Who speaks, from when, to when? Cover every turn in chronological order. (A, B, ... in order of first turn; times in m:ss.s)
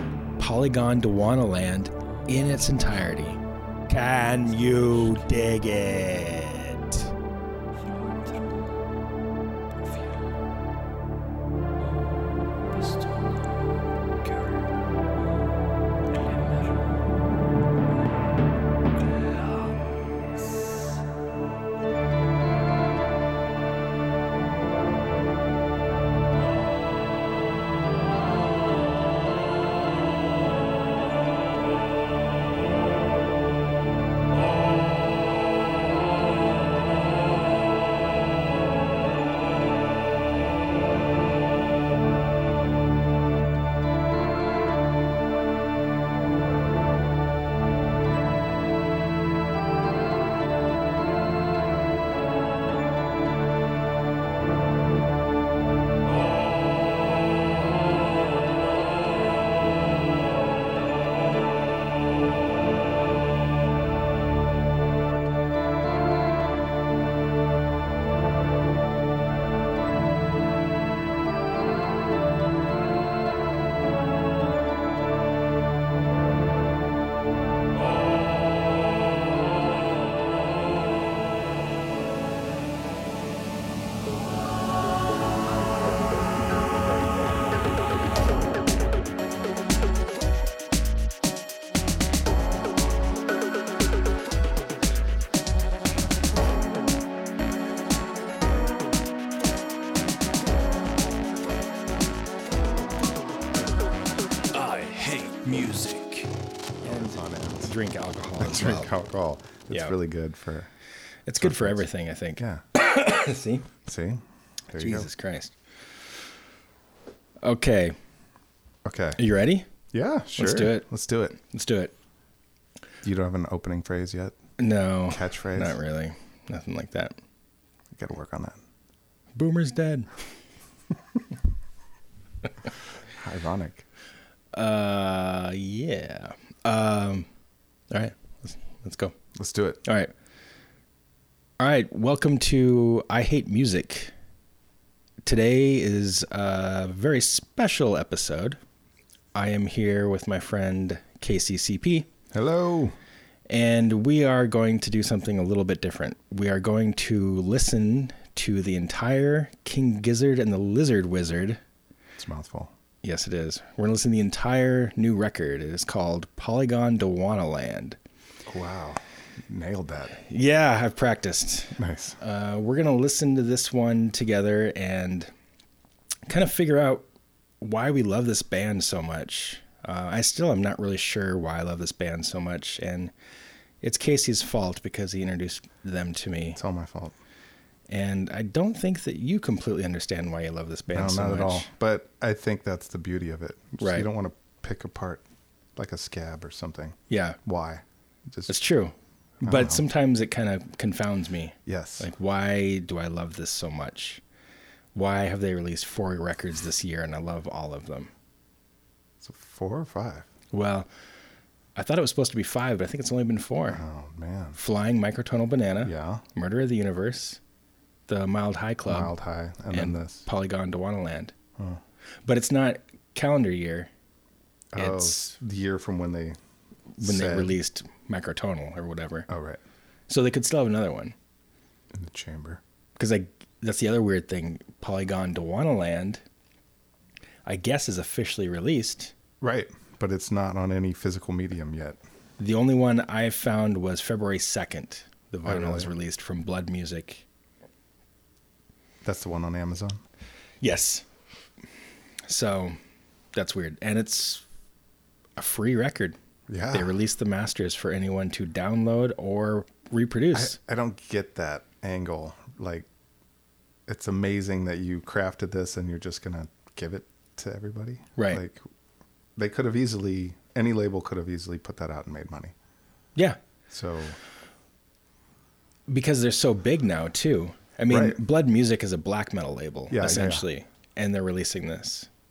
0:00.4-0:07.1 A
0:12.7-0:13.6 B
0:14.2-0:14.6 B
0:16.2-0:16.9 B
0:19.3-0:19.9 B
1:44.5-1:46.3 B
1:46.8-1:47.7 C
1:46.8-1:48.9 A
1:48.4-1:50.7 C
1:51.3-1:53.7 A
1:51.4-1:51.8 C
1:52.4-1:52.6 C
1:53.8-1:55.1 C
1:54.8-1:55.5 A
1:57.4-1:58.0 A
1:58.8-1:59.2 C
1:59.2-1:59.7 A
1:59.9-2:01.4 C
2:00.4-2:01.9 A
2:03.0-2:04.4 C
2:04.6-2:07.2 A
2:05.1-2:05.8 C
2:07.9-2:08.6 C
2:09.4-2:10.1 A
2:13.2-2:13.8 C
2:14.5-2:17.3 A
2:17.9-2:19.2 A
2:19.4-2:19.8 C
2:19.8-2:20.1 A
2:21.6-2:24.1 A
2:25.2-2:28.6 A
2:29.4-2:32.1 A
2:32.3-2:33.0 C
2:33.5-2:41.6 A
2:42.2-2:42.7 C
2:43.0-2:48.0 A
2:48.5-2:50.2 C
2:50.2-2:55.3 A
2:51.8-2:52.2 C
2:56.3-2:57.1 A
2:57.6-3:03.1 A
3:03.8-3:06.6 A
3:06.6-3:07.2 C
3:07.9-3:11.7 A
3:10.9-3:15.2 C
3:13.8-3:14.1 A
3:15.8-3:18.6 C
3:17.1-3:17.4 A
3:18.5-3:24.2 A
3:19.4-3:19.8 C
3:21.7-3:22.1 C
3:25.0-3:28.1 A
3:29.2-3:30.3 C
3:30.5-3:30.9 A
3:31.8-3:33.8 A
3:33.7-3:34.6 C
3:34.6-3:37.4 A
3:35.8-3:36.2 C
3:38.1-3:39.1 A
3:38.9-3:40.3 C
3:39.7-3:41.3 A
3:42.2-3:43.9 A
3:44.7-3:46.4 C
3:44.8-3:45.3 A
3:47.0-3:47.6 C
3:47.0-3:49.3 A
3:49.3-3:49.6 C
3:50.1-3:51.2 A
3:51.9-3:52.6 C
3:53.0-3:56.2 A
3:57.4-3:59.1 A
3:59.4-4:02.0 C
4:02.4-4:07.3 A
4:05.5-4:05.9 C
4:09.0-4:10.0 C
4:10.6-4:11.0 A
4:12.3-4:12.8 A
4:13.3-4:14.4 A
4:15.4-4:16.2 A
4:16.5-4:16.9 C
4:16.7-4:20.6 A
4:20.3-4:22.9 C
4:23.9-4:28.6 C
4:29.4-4:32.5 C
4:33.7-4:34.2 C
4:35.9-4:42.1 A
4:37.9-4:38.2 C
4:39.9-4:40.4 C